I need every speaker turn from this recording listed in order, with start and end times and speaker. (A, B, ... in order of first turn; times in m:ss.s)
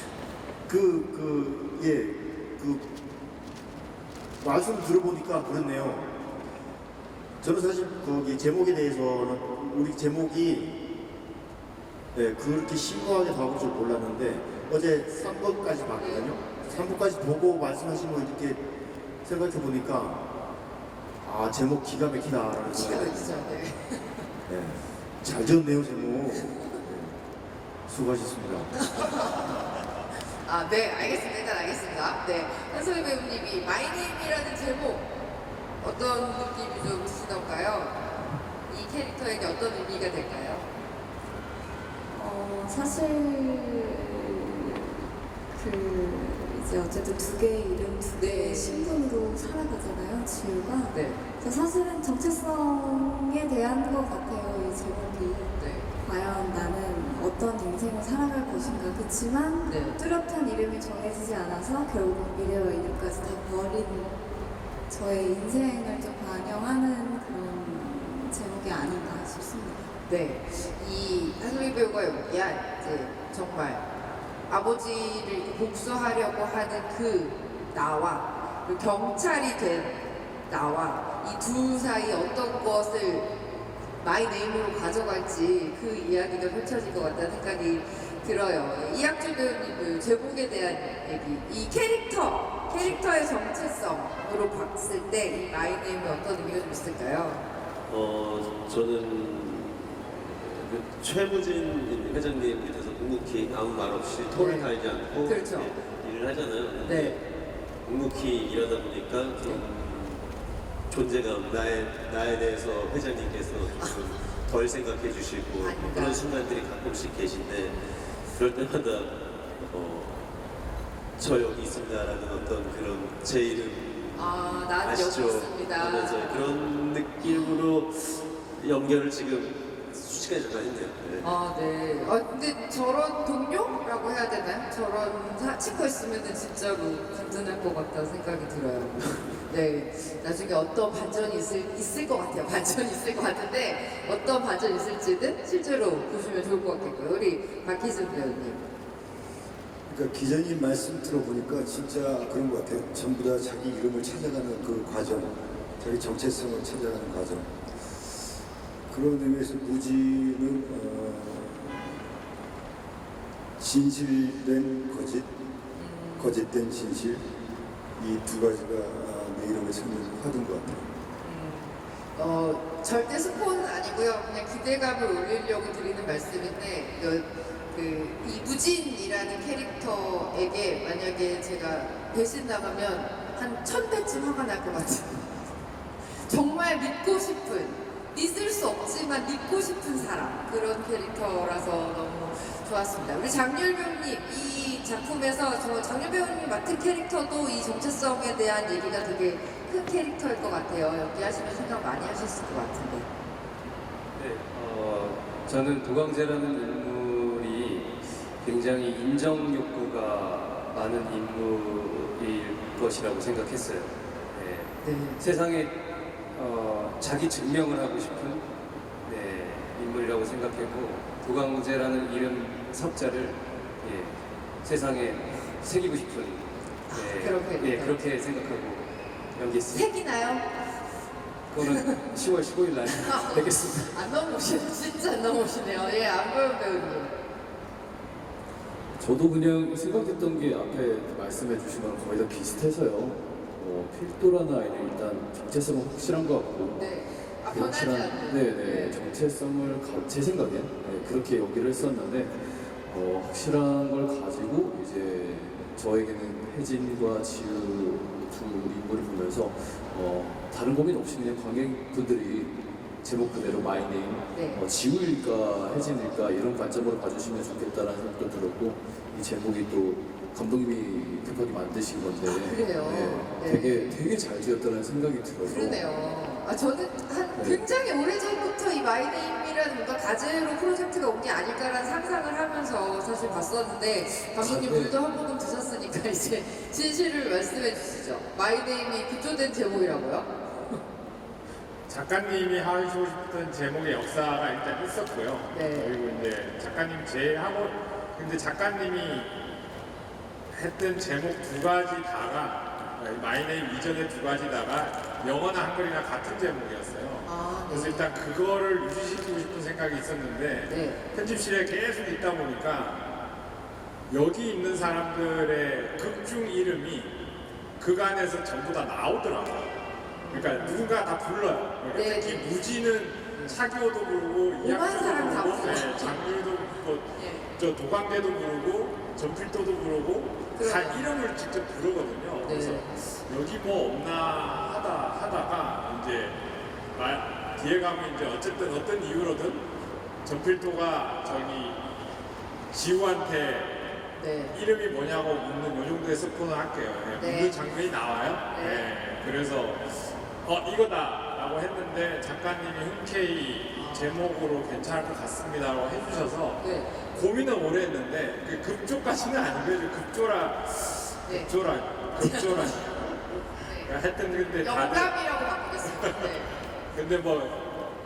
0:00.7-0:02.8 A
0:04.4-0:06.1 A
0:07.4-0:10.7 A
0:12.1-0:18.6 A
0:16.0-0:16.9 B
0:19.2-0:20.2 A
0:21.2-0:23.4 A
0:22.7-0:24.2 B
0:24.5-0:27.2 A
0:27.9-0:28.8 A
0:28.8-0:29.7 B
0:30.4-0:35.1 B
0:35.8-0:38.2 B
0:38.7-0:40.7 B
0:42.1-1:04.1 C
0:48.2-0:49.0 B
0:50.9-0:51.2 B
0:55.6-0:55.9 B
0:59.6-1:00.0 B
1:04.9-1:09.9 C
1:10.1-1:13.8 B
1:14.5-1:23.3 B
1:24.0-1:37.4 B
1:32.7-1:33.0 D
1:37.9-1:47.2 D
1:44.2-1:45.8 B
1:46.8-1:47.2 B
1:47.8-1:50.2 D
1:49.3-1:49.6 B
1:50.9-2:00.3 D
1:53.7-1:54.2 B
1:55.5-1:56.4 B
2:01.2-2:03.9 D
2:04.1-2:07.6 B
2:04.8-2:11.2 D
2:11.2-2:28.6 B
2:29.9-2:37.5 E
2:38.9-2:42.0 E
2:43.6-2:45.3 E
2:45.8-2:46.4 B
2:46.2-2:47.3 E
2:48.0-2:50.8 E
2:51.2-3:05.4 B
3:06.0-3:23.1 B
3:24.2-3:35.8 F
3:34.8-3:35.2 B
3:36.3-3:38.4 F
3:39.0-3:49.9 F
3:46.9-3:48.0 B
3:49.7-3:50.4 B
3:51.5-3:53.9 F
3:51.6-3:51.9 B
3:52.8-3:57.1 B
3:59.0-4:06.5 G
4:05.2-4:06.7 H
4:06.8-4:09.0 B
4:07.4-4:13.6 H
4:09.3-4:10.8 G
4:11.3-4:12.3 G
4:12.8-4:17.6 G
4:14.7-4:15.7 H
4:16.9-4:22.5 H
4:18.4-4:22.4 G
4:23.0-4:27.6 H
4:24.3-4:24.6 B
4:25.3-4:32.0 G
4:28.8-4:34.5 H
4:32.2-4:33.9 B
4:34.0-4:35.3 G
4:35.2-4:35.8 H
4:35.4-4:50.7 B
4:44.4-4:44.9 H
4:51.9-4:59.3 H
4:55.5-4:55.9 B
5:00.5-5:13.0 H
5:07.2-5:08.1 B
5:10.7-5:11.1 B
5:14.1-5:17.1 H
5:17.8-5:19.8 H
5:20.1-5:20.9 B
5:20.3-5:36.4 H
5:21.9-5:22.5 B
5:24.6-5:26.2 B
5:27.1-5:27.4 B
5:30.6-5:31.0 B
5:32.4-5:33.0 B
5:36.9-5:39.7 H
5:40.2-5:41.8 H
5:42.7-5:43.7 H
5:44.2-5:44.6 B
5:44.5-6:05.1 H
5:47.2-5:47.5 B
5:48.5-5:48.9 B
5:53.7-5:54.1 B
5:56.6-5:56.9 B
6:01.2-6:01.5 B
6:02.1-6:02.8 B
6:03.6-6:03.9 B
6:04.6-6:06.6 B
6:06.9-6:07.7 H